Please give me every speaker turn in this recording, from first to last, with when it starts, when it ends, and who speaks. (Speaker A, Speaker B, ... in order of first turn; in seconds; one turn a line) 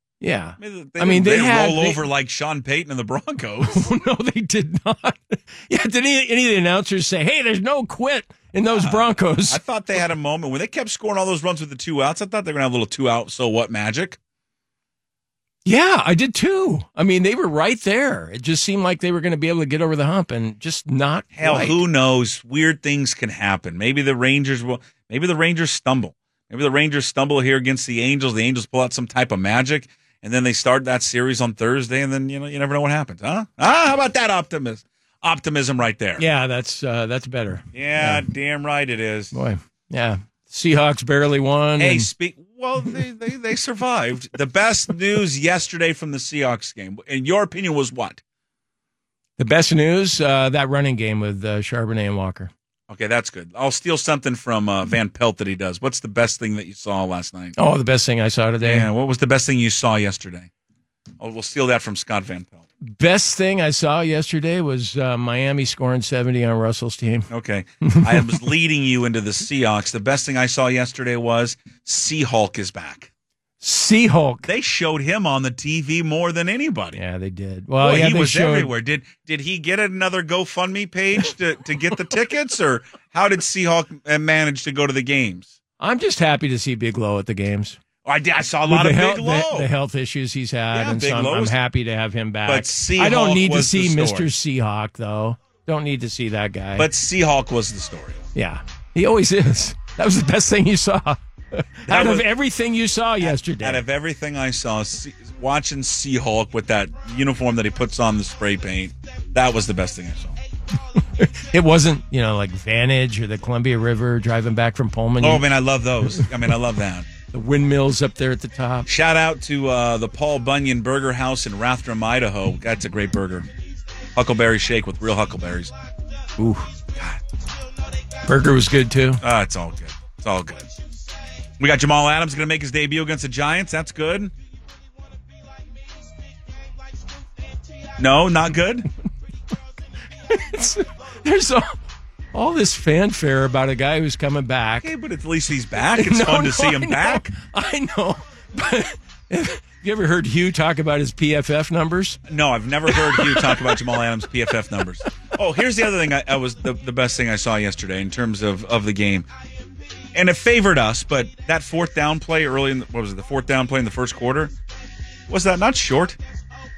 Speaker A: 0.2-2.0
Speaker B: 0.6-3.9
Speaker A: 3.6-9.6
Speaker B: 8.7-14.2
Speaker A: 15.7-21.8
Speaker B: 21.4-36.2
Speaker A: 36.2-38.3
Speaker B: 37.7-39.3
Speaker A: 39.3-42.1
Speaker B: 41.8-48.2
Speaker A: 49.4-52.5
Speaker B: 52.9-57.5
Speaker A: 57.6-58.9
Speaker B: 58.6-60.5
Speaker B: 61.2-62.7
Speaker A: 62.8-67.3
Speaker B: 67.3-73.1
Speaker A: 67.8-68.3
Speaker A: 73.6-74.5
Speaker B: 74.5-77.0
Speaker A: 77.0-78.7
Speaker B: 77.8-85.5
Speaker A: 85.8-87.8
Speaker B: 88.0-89.7
Speaker A: 88.7-96.9
Speaker B: 90.7-91.6
Speaker B: 92.5-94.3
Speaker B: 96.8-98.2
Speaker A: 98.3-103.8
Speaker B: 101.9-102.3
Speaker B: 103.2-110.4
Speaker A: 111.1-115.5
Speaker B: 115.2-117.1
Speaker A: 117.3-118.9
Speaker B: 118.9-123.5
Speaker B: 124.2-125.7
Speaker A: 126.4-126.7
Speaker A: 128.2-129.2
Speaker B: 129.2-130.7
Speaker B: 131.6-134.3
Speaker B: 138.0-138.9
Speaker A: 140.3-141.7
Speaker A: 142.3-144.9
Speaker B: 144.8-147.3
Speaker A: 145.9-152.2
Speaker B: 152.3-159.3
Speaker A: 152.9-153.8
Speaker B: 160.1-164.5
Speaker B: 165.3-166.2